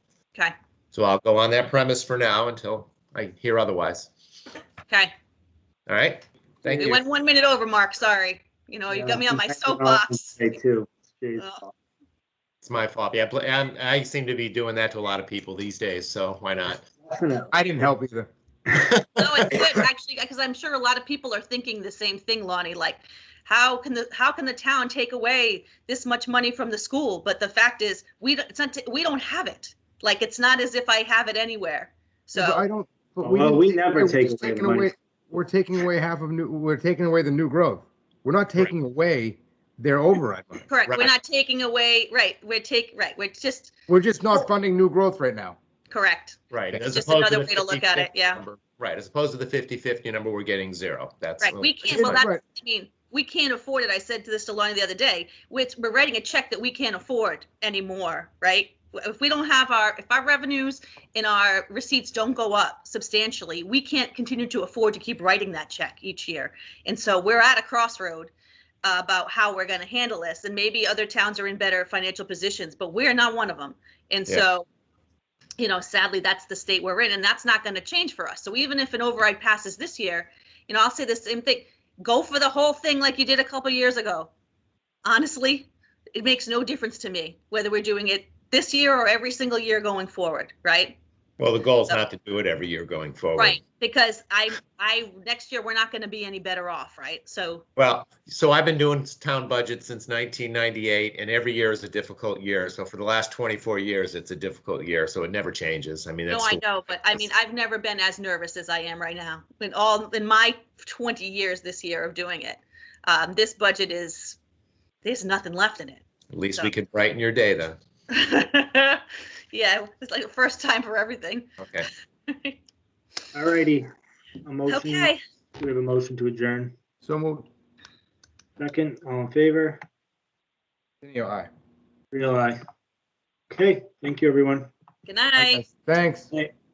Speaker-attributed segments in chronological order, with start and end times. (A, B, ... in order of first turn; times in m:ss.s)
0:00.9-0:04.1 A
0:04.9-0:05.1 B
0:05.9-0:07.0 A
0:06.8-0:10.4 B
0:08.9-0:11.7 C
0:12.6-0:16.8 A
0:17.0-0:17.5 C
0:17.5-0:18.3 D
0:18.7-0:19.7 A
0:19.1-0:32.6 B
0:32.3-0:40.6 D
0:33.2-0:34.9 C
0:40.7-0:43.7 B
0:40.9-0:41.1 A
0:43.9-0:45.6 D
0:45.9-0:48.4 B
0:46.5-0:52.2 A
0:51.4-1:08.3 B
0:51.9-0:52.4 D
1:08.8-1:14.7 B
1:15.6-1:24.3 B
1:25.0-1:31.0 B
1:31.4-1:33.6 A
1:33.4-1:37.6 B
1:37.8-1:46.6 A
1:46.3-1:54.4 B
1:55.0-1:56.7 B
1:56.3-1:57.8 A
1:58.1-2:01.6 B
2:01.6-2:01.9 A
2:02.3-2:02.6 B
2:03.3-2:03.9 C
2:04.4-2:06.7 C
2:04.7-2:05.2 B
2:07.0-2:07.5 D
2:08.6-2:09.8 C
2:11.0-2:11.5 D
2:12.1-2:12.6 C
2:13.5-2:14.7 C
2:15.0-2:15.6 B
2:15.4-2:16.3 D